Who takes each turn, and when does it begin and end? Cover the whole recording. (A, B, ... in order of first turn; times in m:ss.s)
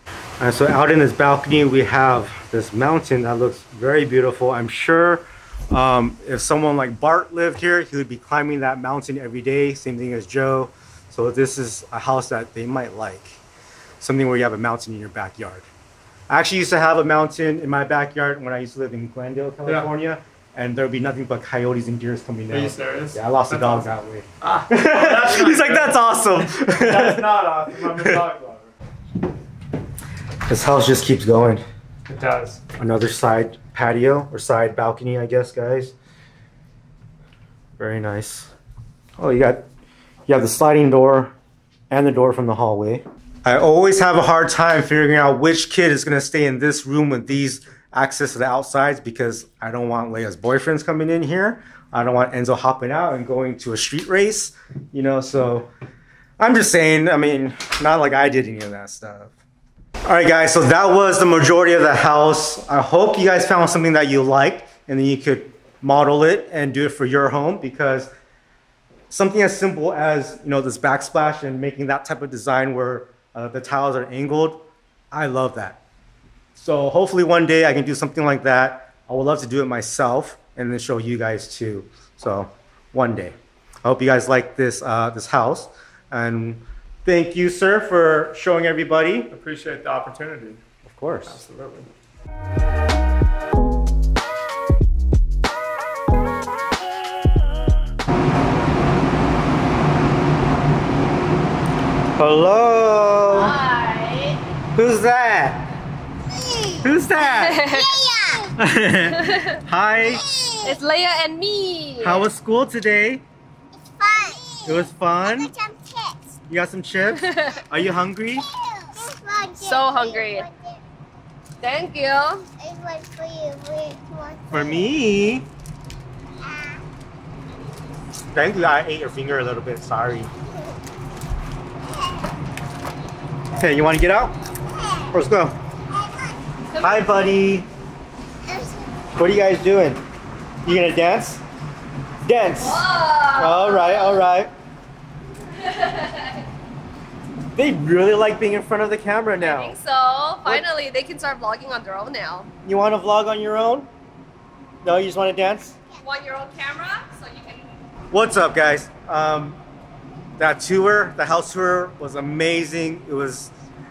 0:00.4-0:13.4 A
0:14.0-0:15.7 A
0:16.3-0:28.2 A
0:22.5-0:23.9 B
0:24.4-0:28.7 B
0:30.5-0:31.6 A
0:32.1-0:32.6 B
0:32.8-0:35.9 A
0:37.8-0:38.5 A
0:39.2-0:39.6 A
0:40.3-0:41.3 A
0:41.9-0:55.7 A
0:56.4-0:59.3 A
1:00.0-1:08.1 A
1:09.1-1:15.8 A
1:16.5-1:29.3 A
1:29.3-1:30.6 B
1:30.8-1:31.4 A
1:31.3-1:31.9 B
1:42.2-1:43.5 A
1:43.3-1:44.4 C
1:44.7-1:45.7 A
1:46.4-1:46.9 D
1:46.8-1:47.6 A
1:47.2-1:48.0 C
1:47.6-1:48.6 D
1:48.6-1:50.2 A
1:49.2-1:49.6 C
1:50.0-1:50.8 D
1:50.6-1:52.2 C
1:52.0-1:53.2 A
1:53.8-1:56.4 D
1:54.6-1:55.5 A
1:56.5-1:58.4 A
1:57.2-1:57.6 C
1:58.3-2:00.8 D
1:59.6-2:00.5 C
2:01.6-2:02.4 C
2:02.6-2:04.9 D
2:04.5-2:05.5 A
2:06.4-2:06.8 D
2:08.3-2:10.3 A
2:13.6-2:14.3 A
2:14.7-2:15.1 D
2:15.1-2:15.6 A
2:15.9-2:16.3 D
2:16.8-2:17.7 A
2:18.4-2:19.1 D
2:19.1-2:20.0 A
2:20.6-2:21.4 A
2:22.2-2:24.5 A
2:22.6-2:24.2 C
2:25.5-2:26.4 C
2:27.5-2:29.8 A
2:29.4-2:32.5 C
2:32.6-2:33.9 A
2:34.8-2:35.8 A
2:36.0-2:37.7 C
2:38.1-2:39.6 A
2:40.4-2:43.5 A